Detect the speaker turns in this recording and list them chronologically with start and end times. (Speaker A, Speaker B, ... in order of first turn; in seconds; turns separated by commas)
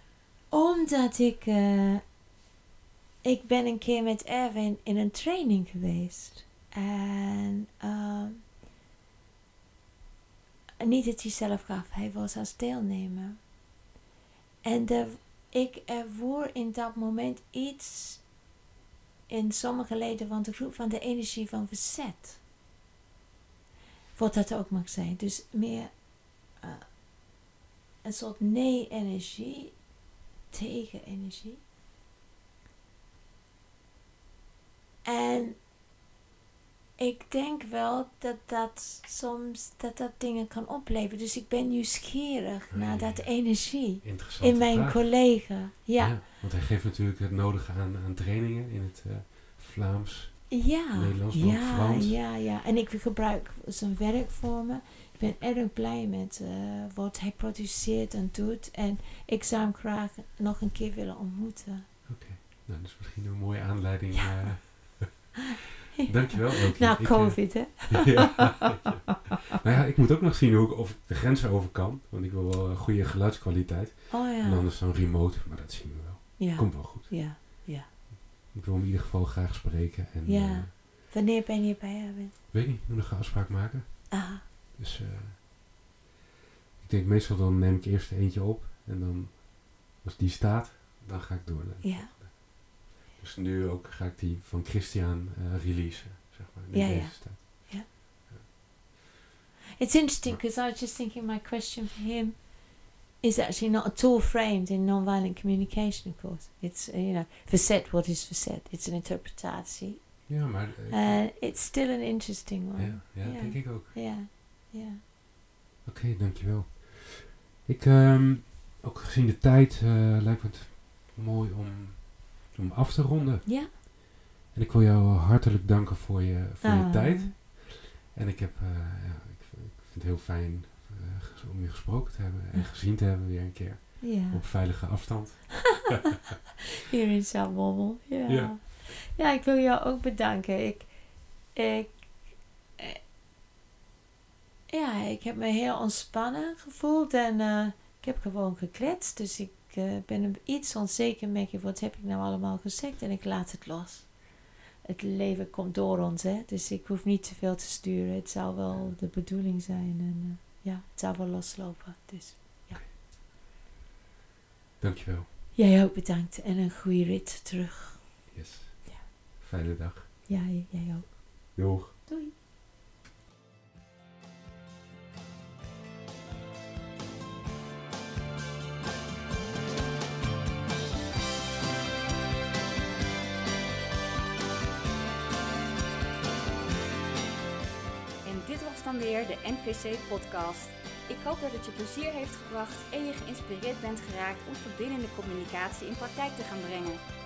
Speaker A: 0.5-2.0, Speaker A: 3.2-8.4, Speaker A: 10.8-13.4, Speaker A: 14.6-18.2, Speaker A: 19.3-22.4, Speaker A: 24.1-26.0, Speaker A: 26.6-26.9, Speaker A: 28.0-29.8, Speaker A: 30.5-31.6, Speaker A: 35.0-35.6, Speaker A: 37.0-46.2, Speaker B: 42.7-45.4, Speaker B: 46.0-52.2, Speaker A: 50.5-61.9, Speaker B: 62.0-65.4, Speaker A: 66.0-68.5, Speaker B: 66.0-77.6, Speaker A: 74.1-74.7, Speaker A: 76.4-77.9, Speaker B: 78.5-80.7, Speaker A: 80.2-82.3, Speaker B: 82.5-85.4, Speaker A: 84.1-84.4, Speaker B: 86.8-92.4, Speaker A: 91.8-92.1, Speaker B: 93.1-97.8, Speaker A: 96.7-97.9, Speaker A: 99.8-102.6, Speaker A: 103.2-110.3, Speaker B: 110.3-111.3, Speaker A: 110.9-115.0, Speaker B: 112.7-114.0, Speaker B: 115.8-123.9, Speaker A: 123.5-123.7, Speaker B: 124.5-136.3, Speaker A: 126.6-127.3, Speaker A: 134.0-135.0, Speaker A: 136.9-142.1, Speaker B: 138.3-138.6, Speaker A: 144.7-154.2, Speaker A: 154.8-162.9, Speaker B: 164.8-165.3, Speaker A: 165.5-168.2, Speaker B: 168.3-170.1, Speaker A: 170.3-172.3, Speaker B: 171.5-171.9, Speaker C: 188.2-197.0